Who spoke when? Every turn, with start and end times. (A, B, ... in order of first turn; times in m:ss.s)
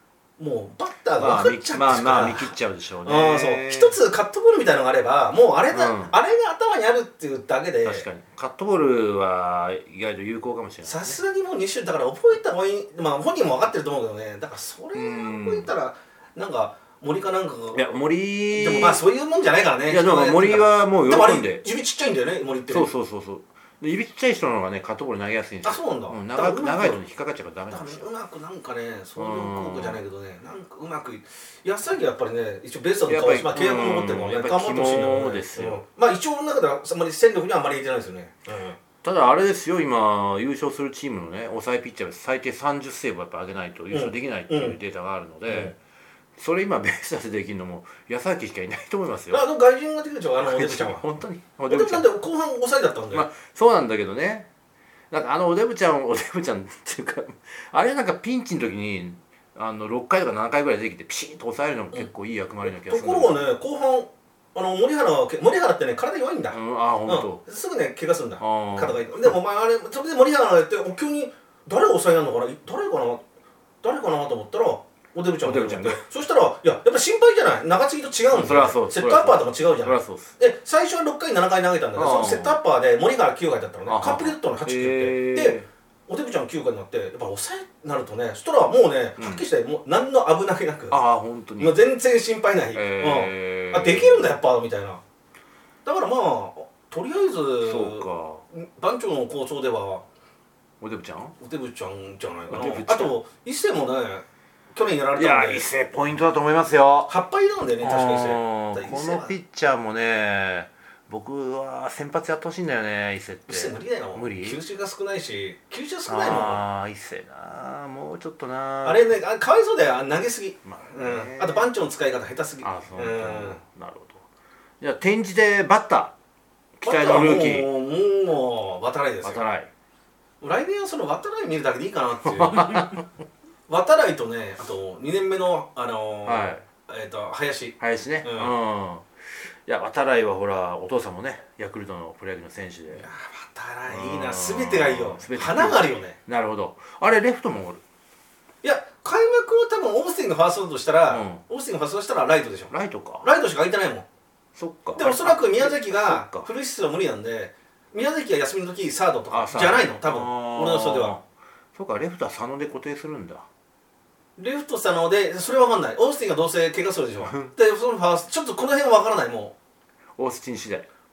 0:00.4-0:08.0 A
0:01.2-0:04.0 B
0:05.7-0:06.2 B
0:07.8-0:11.2 B
0:10.8-0:17.8 A
0:14.9-0:15.7 B
0:17.7-0:19.0 B
0:18.5-0:22.9 A
0:19.9-0:21.6 B
0:22.7-0:28.1 B
0:25.6-0:27.0 A
0:27.7-0:38.8 A
0:29.2-0:30.0 B
0:33.1-0:35.8 B
0:39.0-0:45.8 B
0:43.9-0:44.8 A
0:45.5-0:45.7 A
0:46.4-0:49.4 B
0:49.3-0:51.0 A
0:50.4-0:52.1 B
0:51.7-0:53.2 A
0:53.1-0:54.5 B
0:55.1-1:03.4 B
1:02.6-1:13.2 A
1:06.5-1:07.4 B
1:08.4-1:09.3 B
1:13.8-1:31.0 A
1:15.4-1:16.0 B
1:18.3-1:20.3 B
1:22.0-1:22.6 B
1:23.9-1:25.7 B
1:29.2-1:29.4 B
1:30.9-1:31.8 B
1:31.6-1:35.0 A
1:32.7-1:34.3 B
1:35.8-1:40.0 A
1:37.6-1:38.4 B
1:40.8-1:41.4 B
1:41.4-1:45.6 A
1:42.5-1:43.2 B
1:45.1-1:47.1 B
1:47.1-1:49.4 A
1:47.8-1:54.6 B
1:53.5-1:56.6 A
1:56.1-1:59.0 B
1:58.8-2:03.6 A
2:00.6-2:01.7 B
2:02.6-2:04.2 B
2:04.8-2:06.1 B
2:06.8-2:07.7 B
2:06.8-2:09.4 A
2:09.2-2:09.7 B
2:10.4-2:13.0 A
2:12.3-2:13.0 B
2:13.7-2:18.5 A
2:16.2-2:16.6 B
2:17.8-2:19.1 B
2:19.6-2:23.1 B
2:22.9-2:26.2 A
2:23.9-2:27.8 B
2:28.6-2:34.1 A
2:31.1-2:31.4 B
2:32.7-2:33.3 B
2:34.6-2:36.5 B
2:35.0-2:41.2 A
2:39.3-2:41.2 B
2:41.7-2:43.4 B
2:44.4-2:49.5 A
2:47.2-2:47.5 B
2:50.2-2:50.9 B